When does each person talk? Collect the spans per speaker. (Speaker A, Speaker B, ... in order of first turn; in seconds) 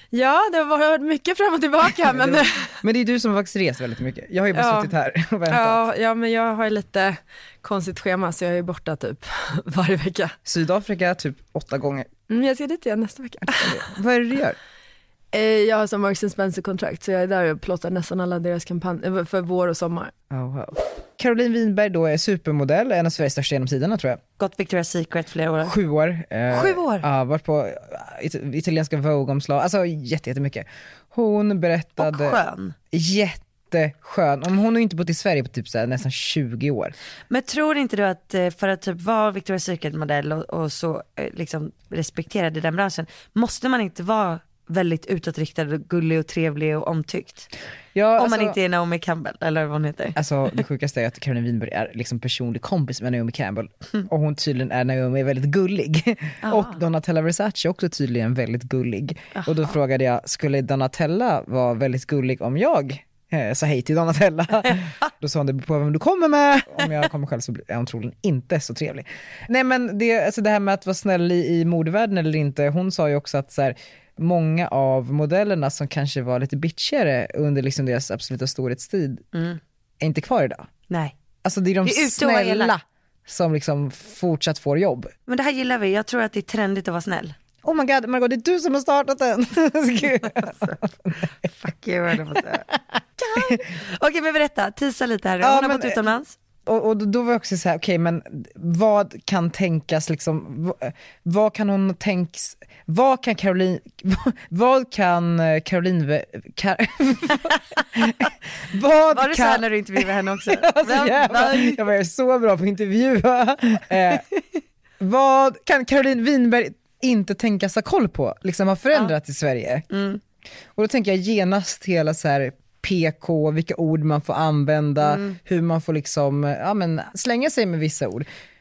Speaker A: 0.1-2.8, 4.5-4.9, 5.5-10.3, 12.3-13.9, 15.3-20.1
Speaker B: 1.9-5.8, 10.5-12.1, 13.5-14.6, 20.3-24.2, 25.6-32.4, 32.9-36.9, 48.0-48.6, 50.2-79.2, 80.0-80.7, 81.4-85.1, 87.6-91.3, 93.3-93.6, 95.4-96.1, 96.6-114.2, 115.0-119.8, 120.8-128.3
Speaker C: 24.4-25.8, 26.5-27.1, 32.0-32.8, 37.3-47.5, 48.2-50.2, 56.4-56.8, 59.4-59.7, 79.3-79.6, 80.9-81.2, 81.8-82.7, 85.3-87.3, 90.4-90.8, 91.4-92.7, 93.2-96.4, 109.1-111.8, 119.9-120.2, 125.0-125.4